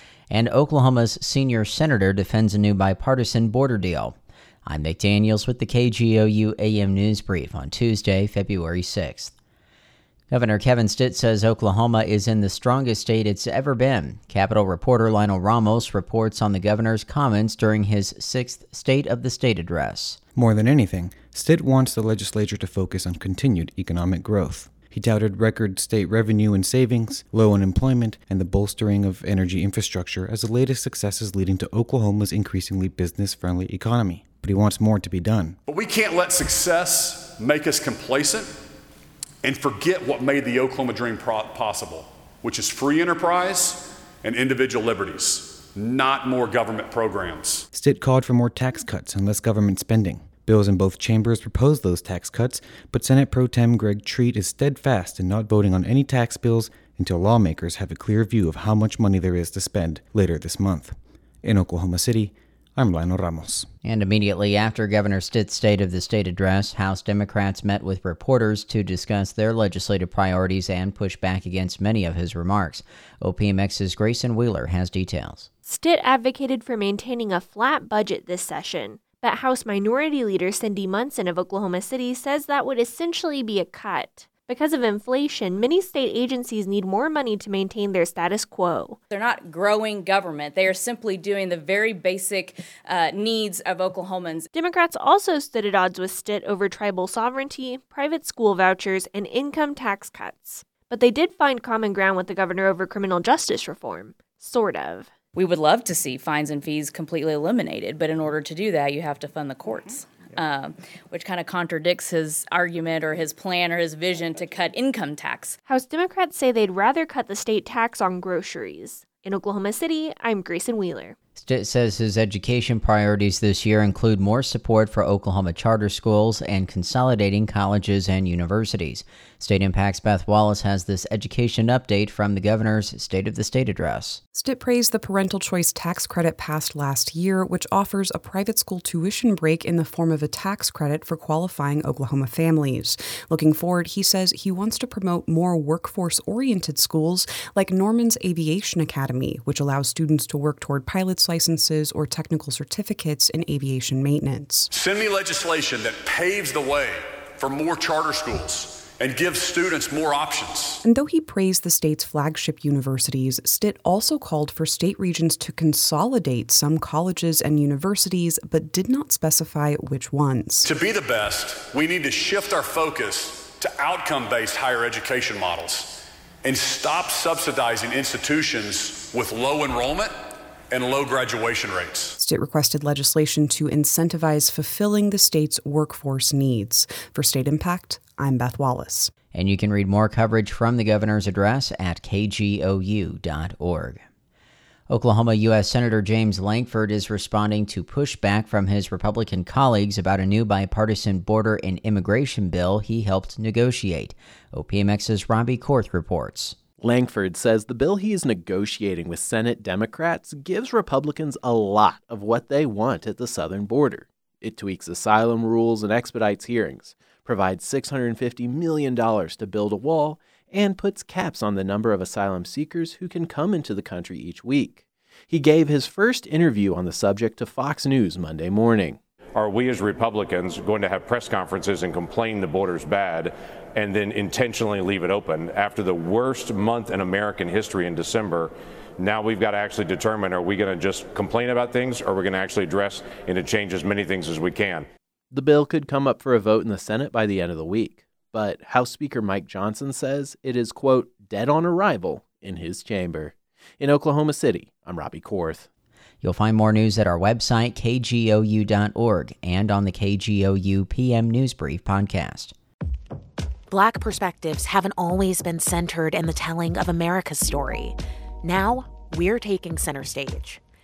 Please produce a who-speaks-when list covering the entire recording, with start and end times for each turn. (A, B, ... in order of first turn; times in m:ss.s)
0:00.3-0:04.2 A
0:04.7-0:09.3 A
0:10.3-0:20.2 A
0:20.4-0:35.6 B
0:35.7-0:38.5 C
0:39.4-0:47.6 C
0:47.7-1:03.7 B
1:03.8-1:15.5 A
1:15.7-1:29.0 D
1:29.1-1:34.5 E
1:34.6-1:45.1 D
1:45.4-1:55.6 E
1:55.7-2:01.2 D
2:01.4-2:14.2 A
2:14.3-2:34.7 F
2:34.7-2:40.8 C
2:40.8-2:50.7 F
2:50.6-3:00.1 C
3:00.7-3:02.2 C
3:02.2-3:09.1 F
3:09.3-3:14.0 A
3:14.9-3:26.6 A
3:26.8-3:49.0 G
3:49.4-4:04.9 H
4:05.3-4:15.7 G
4:16.2-4:22.5 A
4:23.7-4:30.6 I